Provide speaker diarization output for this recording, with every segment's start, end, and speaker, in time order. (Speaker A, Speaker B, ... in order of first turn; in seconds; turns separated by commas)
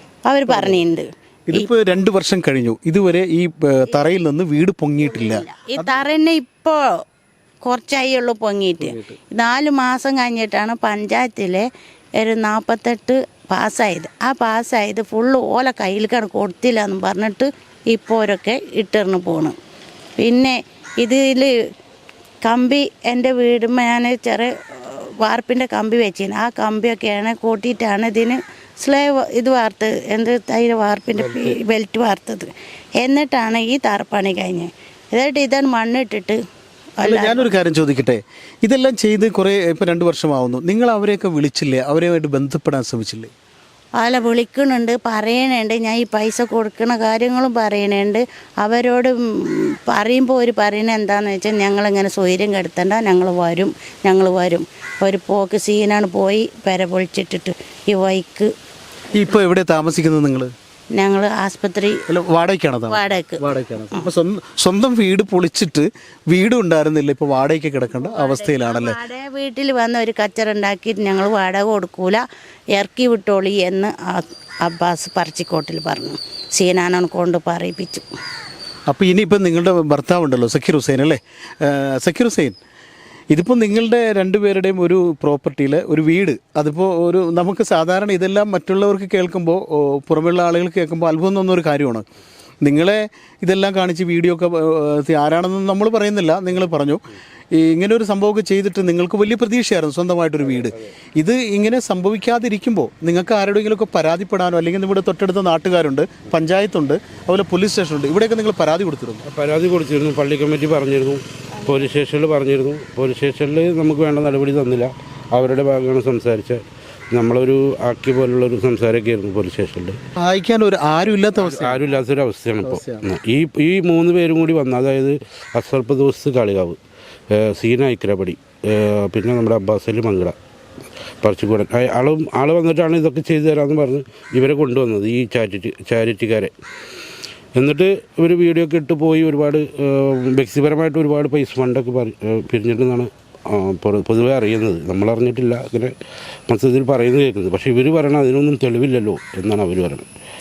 Speaker A: 0.3-1.7, Speaker B: 0.5-0.8, Speaker B: 1.5-6.0, Speaker A: 5.0-6.8, Speaker A: 7.7-11.7, Speaker B: 8.8-9.2, Speaker A: 12.2-19.6, Speaker A: 20.2-21.5, Speaker A: 22.5-32.5, Speaker C: 31.2-31.6, Speaker A: 33.0-36.4, Speaker A: 37.0-37.5, Speaker B: 37.0-43.3, Speaker A: 44.0-58.5, Speaker B: 59.1-60.5, Speaker A: 61.0-62.0, Speaker B: 62.1-69.0, Speaker A: 62.9-64.0, Speaker A: 68.0-72.2, Speaker A: 72.8-78.0, Speaker B: 78.9-82.5, Speaker B: 83.3-92.0, Speaker B: 92.6-97.0, Speaker B: 97.5-109.2, Speaker C: 109.3-116.6, Speaker C: 117.1-120.0, Speaker B: 120.2-121.8, Speaker C: 121.3-126.8, Speaker B: 122.6-123.1, Speaker C: 127.3-130.3, Speaker C: 131.2-136.5, Speaker C: 137.6-145.9, Speaker C: 146.5-150.1